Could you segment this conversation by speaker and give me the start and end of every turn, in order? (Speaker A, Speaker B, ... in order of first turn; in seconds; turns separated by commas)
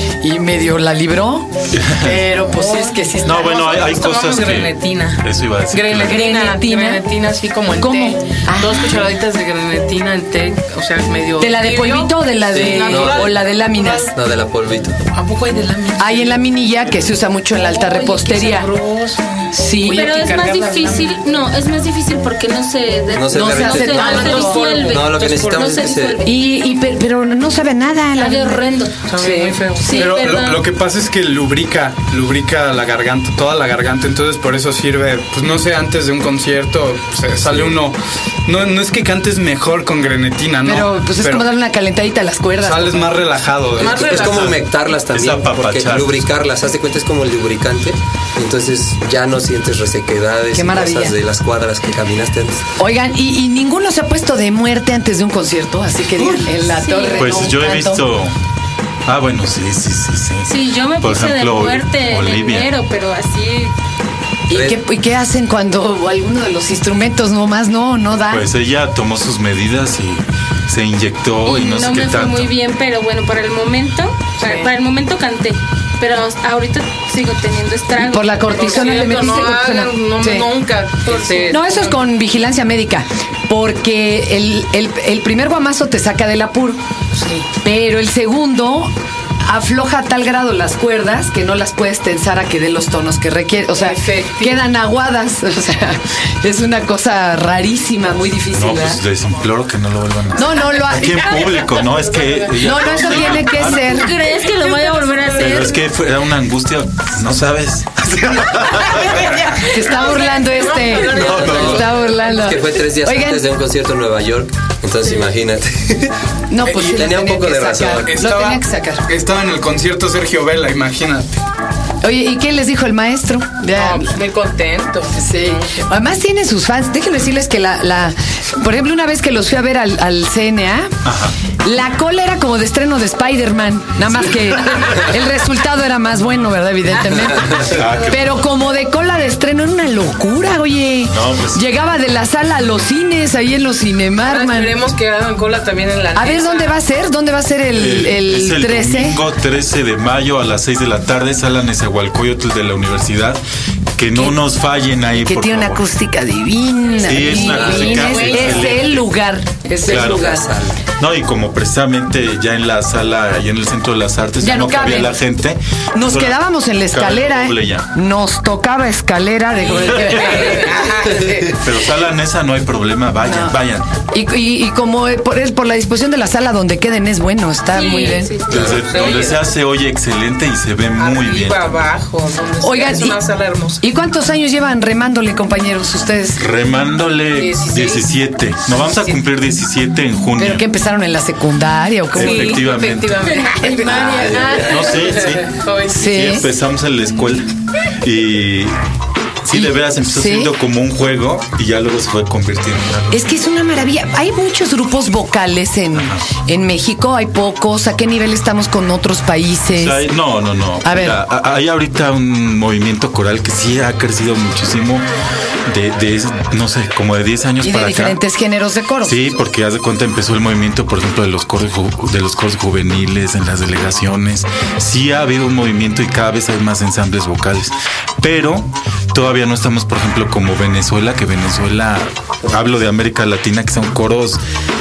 Speaker A: 0.2-3.6, Speaker B: 1.7-2.2, Speaker C: 2.4-14.1, Speaker B: 3.2-6.3, Speaker A: 6.0-7.1, Speaker A: 7.7-9.0, Speaker A: 11.4-14.1, Speaker D: 12.5-13.4, Speaker D: 14.1-15.0, Speaker C: 15.1-16.4, Speaker A: 16.0-18.7, Speaker C: 17.6-21.2, Speaker A: 19.5-20.1, Speaker E: 19.9-26.3, Speaker D: 23.1-26.2, Speaker C: 23.4-25.6, Speaker A: 26.2-29.7, Speaker E: 28.1-29.1, Speaker C: 29.1-30.1, Speaker E: 29.8-30.6, Speaker F: 29.9-41.5, Speaker A: 40.6-43.2, Speaker F: 42.6-44.6, Speaker C: 43.8-44.5, Speaker D: 43.8-52.6, Speaker B: 44.4-46.2, Speaker A: 50.5-51.2, Speaker A: 52.8-58.0, Speaker E: 56.7-57.3, Speaker B: 57.2-58.4, Speaker B: 59.1-62.7, Speaker E: 60.4-63.7, Speaker A: 64.5-68.5, Speaker D: 64.5-64.8, Speaker B: 68.3-72.5, Speaker E: 71.4-79.1, Speaker C: 74.4-74.7, Speaker A: 78.0-80.5, Speaker C: 78.5-82.0, Speaker E: 81.1-81.5, Speaker A: 81.5-86.8, Speaker C: 87.1-87.5, Speaker A: 87.6-88.9, Speaker A: 89.4-99.0, Speaker C: 93.8-94.6, Speaker B: 98.5-104.0, Speaker A: 100.3-101.6, Speaker C: 101.9-102.5, Speaker A: 102.6-104.2, Speaker E: 103.5-105.8, Speaker C: 104.5-105.2, Speaker B: 105.3-109.3, Speaker C: 109.4-112.2, Speaker A: 109.6-113.4, Speaker D: 111.0-116.1, Speaker B: 111.4-111.7, Speaker A: 116.5-119.0, Speaker F: 116.7-117.0, Speaker D: 116.8-118.1, Speaker F: 118.0-121.4, Speaker A: 122.0-124.1, Speaker C: 123.7-125.9, Speaker A: 125.1-130.9, Speaker B: 131.1-131.3, Speaker A: 131.6-144.7, Speaker B: 137.6-138.4, Speaker B: 141.1-141.6, Speaker C: 144.3-146.8, Speaker A: 146.2-149.2, Speaker B: 147.8-153.4, Speaker B: 153.9-155.8, Speaker A: 154.1-154.4, Speaker A: 155.2-160.4, Speaker B: 157.0-159.1, Speaker D: 157.3-158.8, Speaker C: 157.5-158.8, Speaker D: 159.8-160.8, Speaker B: 159.8-160.4, Speaker B: 161.0-167.9, Speaker A: 164.4-165.2, Speaker A: 165.9-170.8, Speaker C: 169.7-171.6, Speaker D: 170.2-171.2, Speaker B: 171.5-173.9, Speaker A: 173.2-173.6, Speaker A: 174.1-178.4, Speaker E: 177.7-178.8, Speaker C: 177.7-179.5, Speaker B: 178.5-181.8, Speaker C: 181.0-183.8, Speaker A: 182.6-183.2, Speaker A: 183.8-186.4, Speaker B: 186.4-190.7, Speaker C: 187.3-188.1, Speaker C: 188.7-189.2, Speaker A: 190.4-192.7, Speaker B: 192.1-193.3, Speaker C: 192.2-196.1, Speaker B: 194.3-197.5, Speaker D: 194.3-194.9, Speaker A: 195.9-196.5, Speaker B: 198.0-198.8, Speaker B: 199.4-203.2, Speaker A: 199.5-200.5, Speaker A: 203.1-210.1, Speaker B: 205.9-206.2, Speaker B: 209.8-215.1, Speaker A: 210.8-211.2, Speaker B: 215.7-218.2, Speaker A: 217.6-219.2, Speaker B: 219.1-234.4